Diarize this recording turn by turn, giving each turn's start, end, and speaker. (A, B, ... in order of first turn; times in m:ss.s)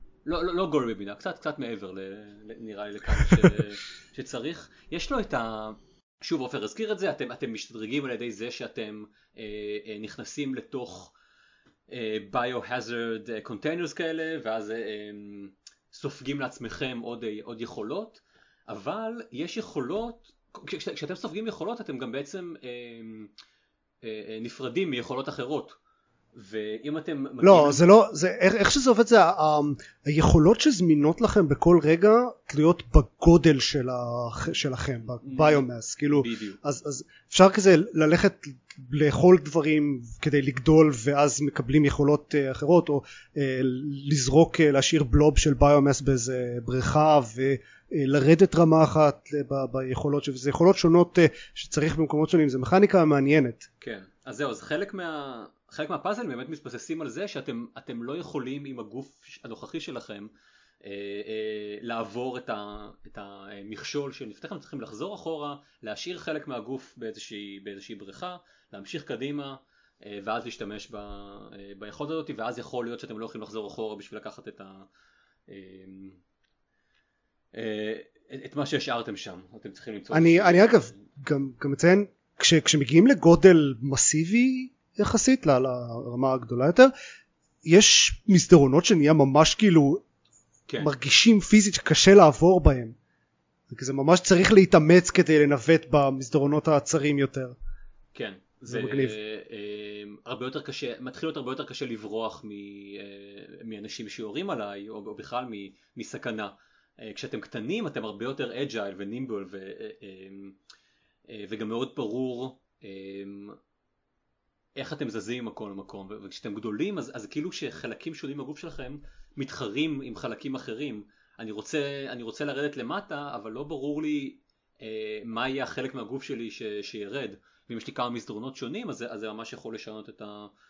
0:00.2-0:11.1 A
0:11.9-0:23.3 A
0:24.0-0:25.8 A
0:26.3-0:27.8 A
0:27.4-0:53.6 B
0:35.2-0:36.6 A
0:53.8-1:00.3 A
1:00.8-1:14.9 A
1:15.5-1:16.2 A
1:17.5-1:20.9 A
1:20.1-1:26.9 B
1:27.6-1:30.0 B
1:30.7-1:30.9 A
1:30.8-1:32.9 B
1:33.7-1:37.5 B
1:38.1-1:50.6 A
1:38.7-1:39.2 B
1:51.3-1:53.6 A
1:54.8-2:10.5 A